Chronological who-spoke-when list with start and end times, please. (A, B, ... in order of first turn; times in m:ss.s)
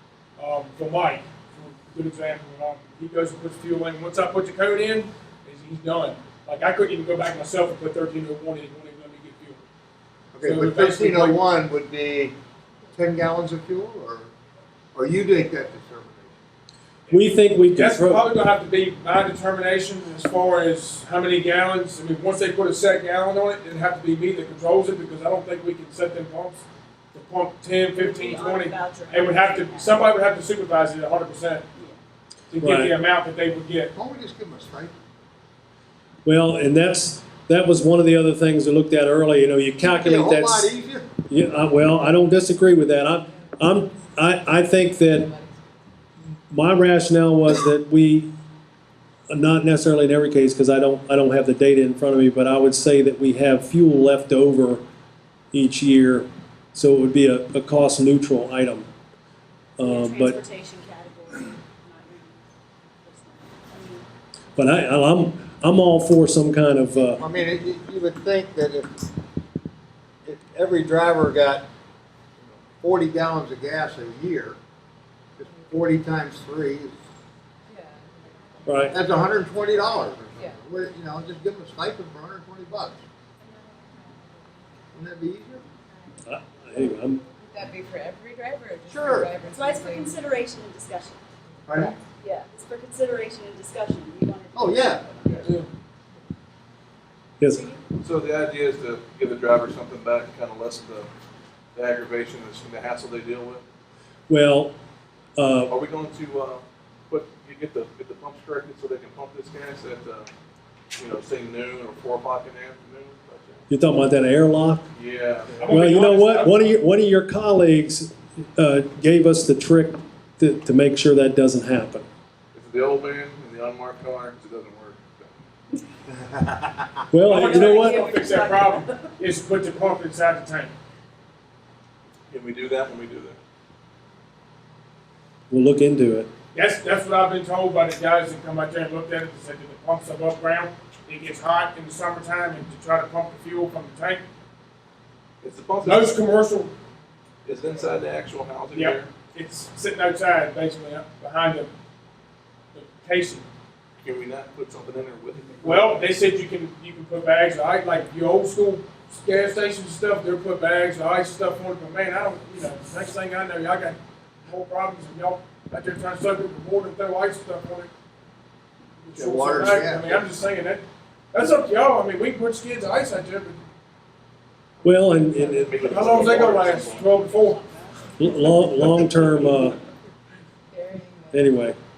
0:00.4-0:09.6 A
0:10.3-0:12.3 B
0:10.4-0:11.4 A
0:12.9-0:14.3 B
0:14.9-0:16.4 B
0:17.1-0:31.6 A
0:17.1-0:18.2 C
0:27.9-0:30.0 D
0:31.7-0:32.0 D
0:32.5-0:33.9 A
0:32.6-0:32.9 C
0:33.9-0:34.9 B
0:36.2-0:40.7 C
0:39.8-0:41.1 B
0:41.3-0:45.3 C
0:44.7-0:45.9 E
0:46.5-0:48.3 C
0:49.3-0:54.8 C
0:55.5-0:58.9 C
0:59.8-1:00.4 C
0:59.8-1:04.1 D
1:04.6-1:07.2 C
1:07.2-1:08.9 B
1:10.2-1:11.6 B
1:12.8-1:14.6 B
1:15.4-1:16.9 B
1:15.4-1:15.7 E
1:17.7-1:19.3 E
1:18.6-1:19.0 C
1:18.9-1:23.0 B
1:20.3-1:20.6 E
1:23.7-1:24.2 D
1:24.9-1:25.6 B
1:26.2-1:27.2 C
1:27.2-1:30.2 E
1:28.9-1:29.3 B
1:29.4-1:31.2 D
1:31.7-1:32.0 B
1:31.7-1:35.5 D
1:34.5-1:35.0 B
1:37.4-1:37.8 D
1:38.0-1:41.1 F
1:41.7-1:43.6 F
1:44.3-1:44.7 C
1:45.4-1:45.7 C
1:45.7-1:50.3 F
1:51.0-1:53.6 F
1:53.7-1:54.8 C
1:54.9-1:55.8 F
1:55.6-1:56.8 A
1:55.6-2:02.0 C
2:02.5-2:05.5 F
2:06.1-2:07.0 B
2:07.1-2:08.0 C
2:07.2-2:10.7 A
2:07.3-2:09.1 D
2:12.3-2:13.4 F
2:15.5-2:16.3 C
2:16.5-2:24.2 A
2:25.4-2:26.2 F
2:25.8-2:26.7 A
2:27.4-2:29.1 F
2:28.7-2:31.7 A
2:32.7-2:33.4 A
2:34.0-2:36.0 F
2:35.6-2:47.9 A
2:49.0-2:53.6 A
2:49.2-2:50.3 B
2:54.8-2:55.8 C
2:55.1-2:57.3 F
2:55.8-2:57.6 A
2:57.6-2:57.8 D
2:58.2-2:59.8 C
3:00.7-3:01.7 E
3:01.3-3:01.8 C